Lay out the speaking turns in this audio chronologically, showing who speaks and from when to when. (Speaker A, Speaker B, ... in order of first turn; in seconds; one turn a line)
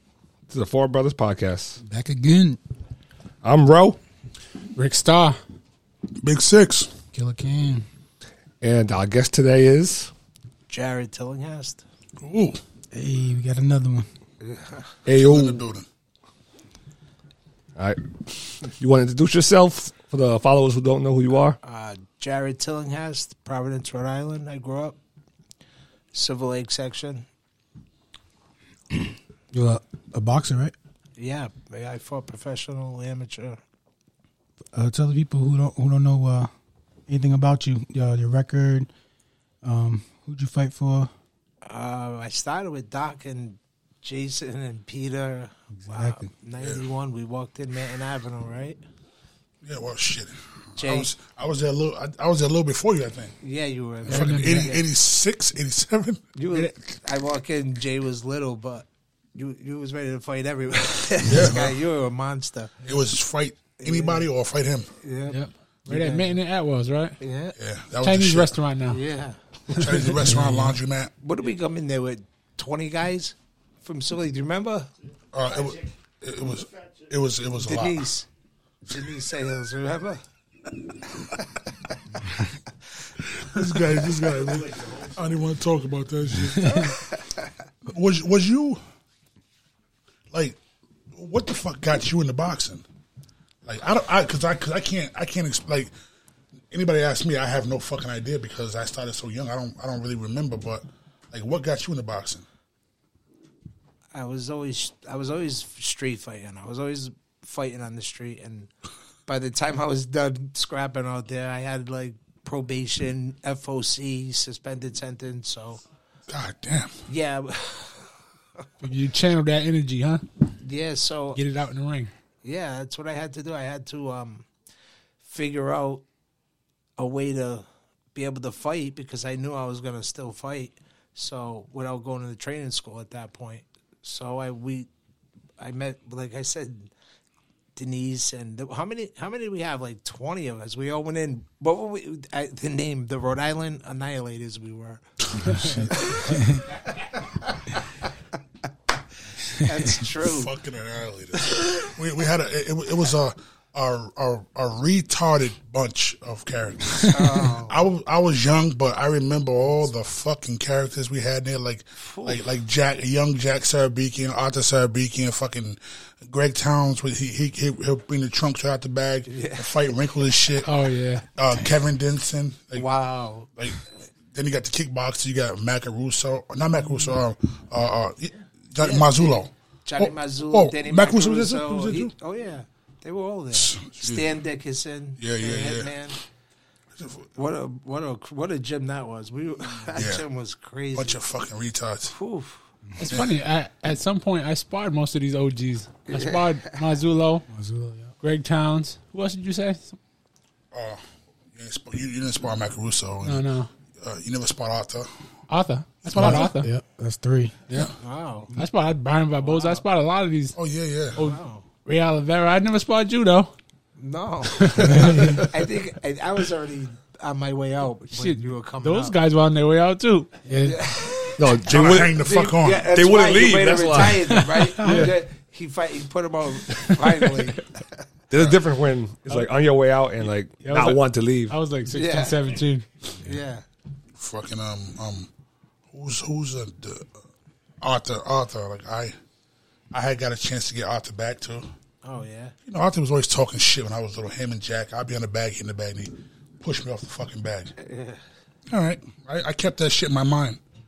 Speaker A: 0.5-1.8
Speaker B: 1.8-2.6
Speaker A: 3.4-4.0
Speaker C: 4.8-5.4
Speaker D: 6.2-6.9
Speaker B: 7.1-7.8
Speaker A: 8.6-10.1
Speaker E: 10.7-11.8
Speaker D: 12.2-12.6
Speaker B: 12.9-14.1
Speaker E: 14.4-14.8
Speaker A: 15.1-15.6
Speaker D: 15.1-15.9
Speaker A: 17.8-21.6
Speaker E: 21.6-25.0
Speaker E: 26.1-27.3
Speaker B: 29.5-30.8
Speaker E: 31.2-33.6
Speaker B: 34.7-36.5
Speaker B: 37.1-38.9
Speaker B: 39.6-41.1
Speaker E: 41.6-48.8
Speaker B: 45.8-46.3
Speaker D: 49.6-53.4
Speaker E: 50.8-51.1
Speaker E: 53.4-54.8
Speaker D: 54.0-56.2
Speaker C: 54.1-54.7
Speaker E: 56.4-62.9
Speaker D: 61.2-61.8
Speaker D: 62.9-64.9
Speaker E: 63.8-64.2
Speaker E: 65.0-66.4
Speaker C: 65.9-67.2
Speaker E: 67.2-67.5
Speaker D: 67.6-68.6
Speaker C: 68.0-69.0
Speaker E: 68.9-69.8
Speaker D: 69.7-71.1
Speaker C: 69.7-70.0
Speaker B: 70.2-70.7
Speaker E: 71.2-74.9
Speaker D: 75.3-78.0
Speaker E: 77.6-78.3
Speaker E: 78.9-80.2
Speaker D: 83.3-87.0
Speaker E: 86.7-87.5
Speaker D: 87.8-88.8
Speaker D: 90.3-90.6
Speaker D: 91.1-92.8
Speaker D: 93.6-95.9
Speaker D: 96.7-102.5
Speaker E: 104.1-108.7
Speaker E: 109.3-115.8
Speaker D: 116.3-117.0
Speaker E: 117.1-118.2
Speaker C: 118.8-120.2
Speaker E: 120.6-121.4
Speaker C: 121.3-122.1
Speaker E: 122.4-124.5
Speaker E: 125.2-126.0
Speaker E: 127.0-134.9
Speaker E: 135.6-136.9
Speaker E: 137.8-145.0
Speaker C: 145.4-146.2
Speaker B: 145.5-146.7
Speaker E: 145.9-147.8
Speaker E: 149.5-150.5
Speaker D: 150.2-170.8
Speaker E: 157.0-157.8
Speaker E: 162.0-162.4
Speaker E: 169.3-169.7
Speaker C: 170.6-171.2
Speaker D: 171.3-172.8
Speaker E: 172.8-173.6
Speaker D: 174.3-182.1
Speaker E: 178.8-186.2
Speaker D: 183.5-184.3
Speaker D: 185.2-186.0
Speaker D: 186.9-187.3
Speaker E: 187.3-191.2
Speaker D: 189.7-190.2
Speaker D: 190.9-192.1
Speaker E: 192.1-192.6
Speaker C: 193.0-197.5
Speaker D: 193.1-193.4
Speaker E: 196.1-196.8
Speaker B: 197.5-198.1
Speaker C: 198.2-200.0
Speaker D: 200.7-205.1
Speaker C: 203.2-203.7
Speaker C: 205.5-206.7
Speaker D: 206.0-206.5
Speaker B: 206.1-207.6
Speaker E: 208.0-208.5
Speaker C: 208.5-210.6
Speaker E: 209.4-209.8
Speaker D: 210.5-211.2
Speaker C: 211.2-213.5
Speaker E: 211.2-211.7
Speaker E: 214.0-219.2
Speaker C: 214.5-215.5
Speaker B: 214.9-215.4
Speaker C: 218.1-220.4
Speaker B: 220.4-220.8
Speaker E: 220.6-228.0
Speaker A: 221.4-222.2
Speaker D: 221.6-222.9
Speaker A: 222.9-224.4
Speaker B: 224.5-225.1
Speaker C: 224.8-225.1
Speaker C: 226.7-227.2
Speaker A: 228.3-231.6
Speaker D: 228.3-228.6
Speaker C: 230.6-232.8
Speaker E: 231.9-232.6
Speaker E: 233.2-233.6
Speaker D: 234.1-235.3
Speaker D: 235.9-237.2
Speaker D: 237.8-239.1
Speaker D: 239.9-241.7
Speaker E: 242.0-242.5
Speaker D: 242.7-247.7
Speaker E: 247.8-248.2
Speaker D: 248.7-250.6